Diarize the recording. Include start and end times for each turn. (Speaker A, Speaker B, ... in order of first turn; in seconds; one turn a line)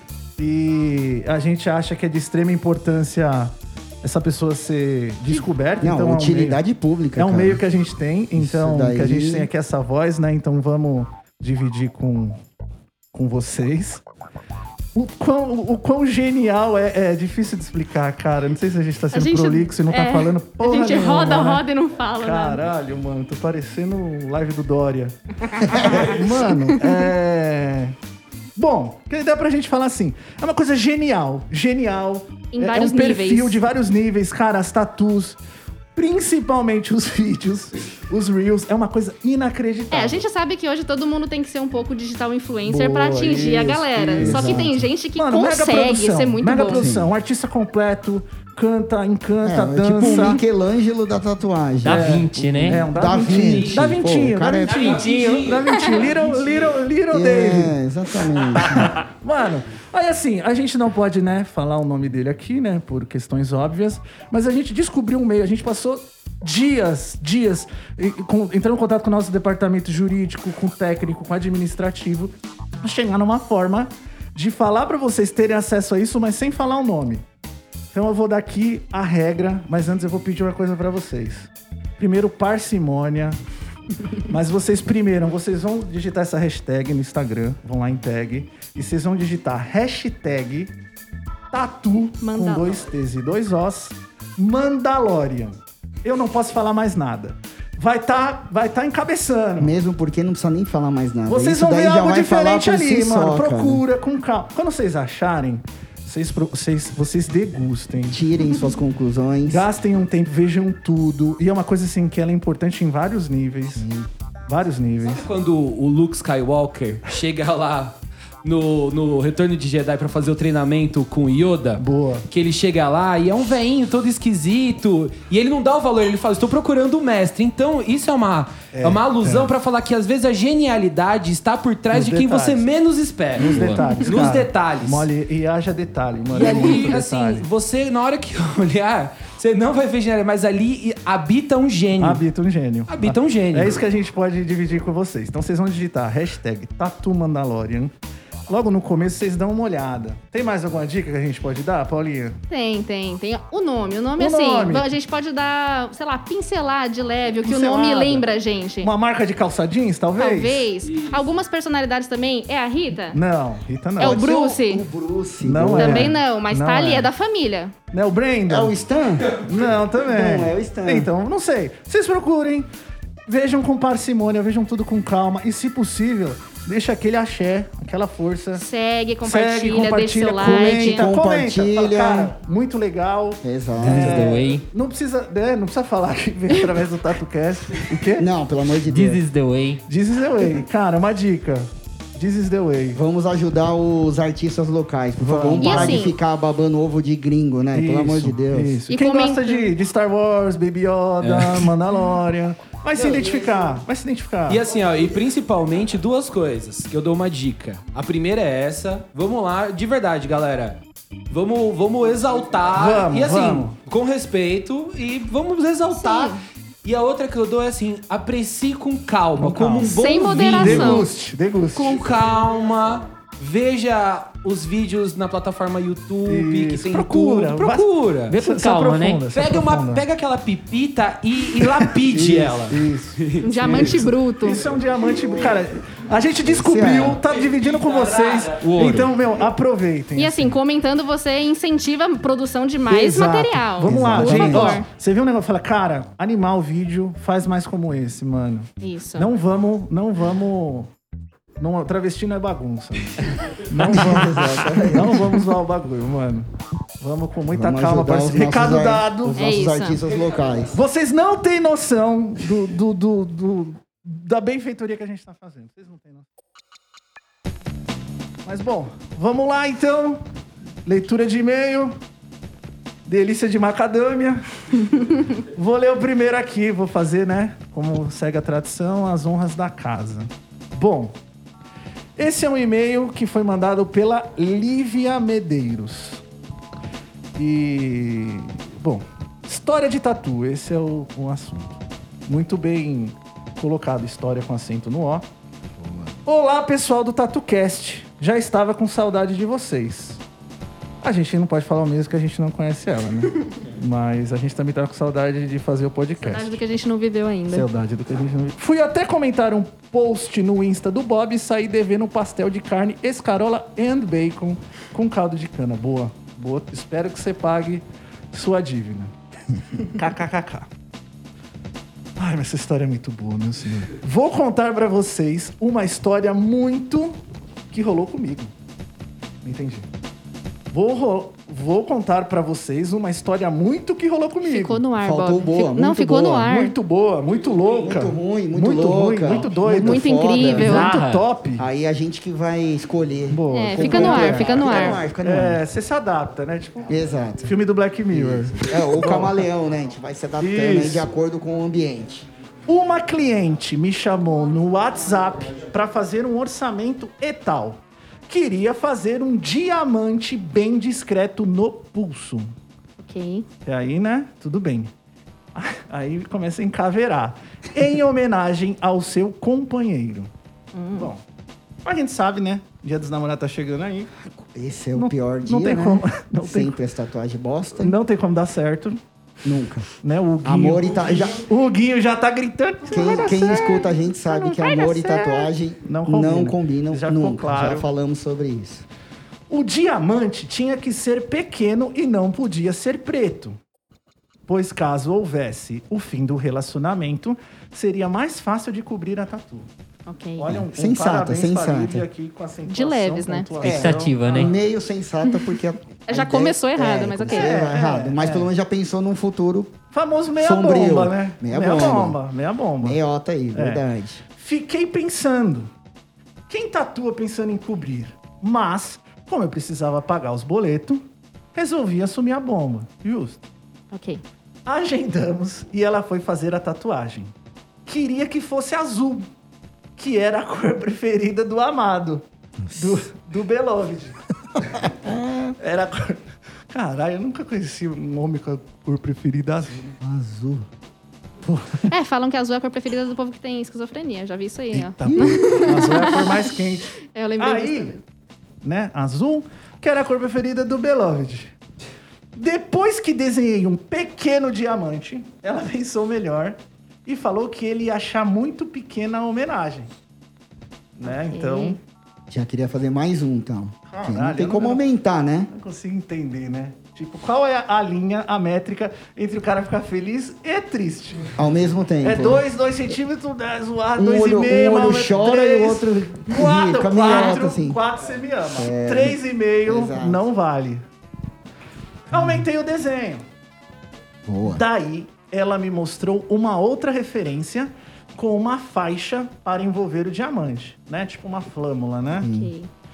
Speaker A: 0.4-6.6
Speaker B: 5.8-7.6
Speaker A: 7.2-12.4
Speaker B: 8.3-9.5
Speaker A: 13.1-14.0
Speaker A: 14.9-21.6
Speaker C: 19.1-22.6
Speaker A: 22.2-25.2
Speaker C: 25.4-26.8
Speaker B: 25.6-26.2
Speaker A: 25.7-27.9
Speaker A: 28.6-35.4
Speaker C: 32.5-33.6
Speaker A: 36.0-40.2
Speaker C: 39.9-46.9
Speaker A: 42.6-50.4
Speaker B: 44.2-44.8
Speaker B: 46.7-47.1
Speaker B: 49.4-55.0
Speaker A: 51.8-57.8
Speaker D: 51.8-52.9
Speaker E: 53.0-54.1
Speaker E: 54.6-56.8
Speaker B: 57.1-59.0
Speaker A: 58.5-77.2
Speaker A: 77.9-83.4
Speaker A: 84.3-90.7
Speaker A: 91.5-99.7
Speaker C: 92.2-92.8
Speaker B: 99.6-103.8
Speaker A: 101.3-108.2
Speaker B: 108.1-109.7
Speaker A: 109.5-113.8
Speaker B: 113.8-114.1
Speaker A: 114.5-115.2
Speaker E: 115.0-135.1
Speaker A: 121.8-122.3
Speaker A: 128.7-129.5
Speaker A: 131.9-132.7
Speaker A: 133.4-137.4
Speaker D: 133.4-133.8
Speaker E: 136.3-142.2
Speaker A: 142.0-147.9
Speaker E: 142.9-143.8
Speaker A: 148.5-152.4
Speaker C: 152.5-158.9
Speaker A: 154.2-154.9
Speaker A: 157.4-158.3
Speaker A: 158.8-160.7
Speaker C: 160.2-163.2
Speaker E: 160.9-161.1
Speaker A: 163.1-164.2
Speaker C: 164.0-164.9
Speaker B: 164.0-166.2
Speaker A: 165.4-167.1
Speaker C: 165.8-167.7
Speaker A: 167.9-168.8
Speaker B: 168.5-169.4
Speaker A: 169.3-172.7
Speaker B: 170.0-171.1
Speaker A: 173.3-178.6
Speaker C: 178.6-181.1
Speaker A: 179.2-188.3
Speaker B: 180.4-182.3
Speaker B: 183.4-184.4
Speaker D: 183.8-184.7
Speaker B: 188.1-189.2
Speaker D: 188.9-189.8
Speaker A: 189.9-193.0
Speaker B: 192.9-198.8
Speaker A: 195.2-196.1
Speaker C: 195.6-196.2
Speaker A: 197.7-204.6
Speaker C: 198.9-199.7
Speaker E: 201.2-201.7
Speaker E: 204.5-221.1
Speaker A: 212.7-213.7
Speaker C: 215.9-216.4
Speaker A: 219.4-222.0
Speaker C: 219.9-221.1
Speaker E: 221.7-228.3
Speaker A: 226.3-230.1
Speaker D: 228.3-229.3
Speaker E: 229.3-234.0
Speaker A: 231.6-240.6
Speaker C: 233.4-234.6
Speaker B: 236.4-237.2
Speaker E: 238.2-239.1
Speaker C: 240.2-244.9
Speaker A: 242.9-250.9
Speaker B: 243.8-244.8
Speaker C: 248.8-249.3
Speaker A: 251.6-259.5
Speaker B: 253.8-255.3
Speaker B: 257.5-260.8
Speaker C: 259.4-260.0
Speaker A: 260.7-266.3
Speaker A: 268.4-270.2
Speaker A: 270.9-272.0
Speaker A: 273.1-281.1
Speaker A: 282.2-286.2
Speaker A: 287.4-295.2
Speaker B: 295.8-296.1
Speaker A: 296.2-300.2
Speaker A: 301.0-306.6
Speaker C: 306.2-307.7
Speaker A: 307.5-319.1
Speaker A: 319.8-320.7
Speaker A: 322.2-327.1
Speaker A: 327.7-328.5
Speaker A: 329.4-329.9
Speaker A: 330.7-334.8
Speaker C: 334.4-336.8
Speaker B: 335.0-336.3
Speaker A: 335.9-341.6
Speaker B: 337.8-340.9
Speaker C: 339.8-340.9
Speaker D: 340.6-341.3
Speaker B: 341.6-345.6
Speaker A: 343.3-346.9
Speaker C: 343.5-345.0
Speaker B: 346.9-347.6
Speaker A: 347.5-349.4
Speaker B: 348.1-352.3
Speaker A: 350.4-351.1
Speaker A: 352.7-362.5
Speaker C: 363.0-363.5
Speaker A: 363.6-364.9
Speaker A: 365.5-370.3
Speaker C: 370.7-371.1
Speaker A: 370.9-371.2
Speaker A: 371.8-374.1
Speaker B: 374.3-378.0
Speaker A: 375.0-376.8
Speaker A: 377.8-379.0
Speaker B: 379.4-379.9
Speaker A: 380.0-385.3
Speaker B: 380.4-381.4
Speaker B: 382.9-388.9
Speaker C: 384.8-385.5
Speaker A: 385.9-387.9
Speaker A: 389.5-393.6
Speaker A: 394.5-399.7
Speaker C: 400.1-400.5
Speaker A: 400.4-404.5
Speaker B: 400.5-402.1
Speaker C: 402.6-403.5
Speaker D: 403.6-404.5
Speaker B: 403.6-409.8
Speaker C: 406.1-407.8
Speaker A: 407.3-408.5
Speaker A: 409.9-413.0
Speaker B: 410.4-412.2
Speaker B: 412.8-414.2
Speaker A: 413.5-415.7
Speaker A: 416.5-423.4
Speaker C: 423.9-424.2
Speaker A: 424.7-427.3
Speaker A: 427.9-429.3
Speaker A: 430.0-434.9
Speaker B: 432.7-433.0
Speaker B: 434.8-435.6
Speaker A: 435.6-439.9
Speaker B: 440.0-440.7
Speaker A: 441.5-441.9
Speaker C: 441.9-446.6
Speaker A: 444.7-448.0
Speaker B: 445.0-445.6
Speaker C: 447.1-448.0
Speaker A: 448.6-451.5
Speaker A: 452.4-459.9
Speaker A: 461.0-461.8
Speaker C: 461.1-461.8
Speaker B: 462.3-465.5
Speaker A: 463.9-464.8
Speaker A: 465.5-471.4
Speaker B: 471.4-472.4
Speaker A: 472.0-480.8
Speaker B: 474.0-477.8
Speaker B: 478.6-480.3
Speaker A: 482.1-483.2
Speaker B: 482.1-482.4
Speaker B: 484.3-484.6
Speaker A: 484.4-492.3
Speaker B: 492.2-492.5
Speaker C: 492.2-492.7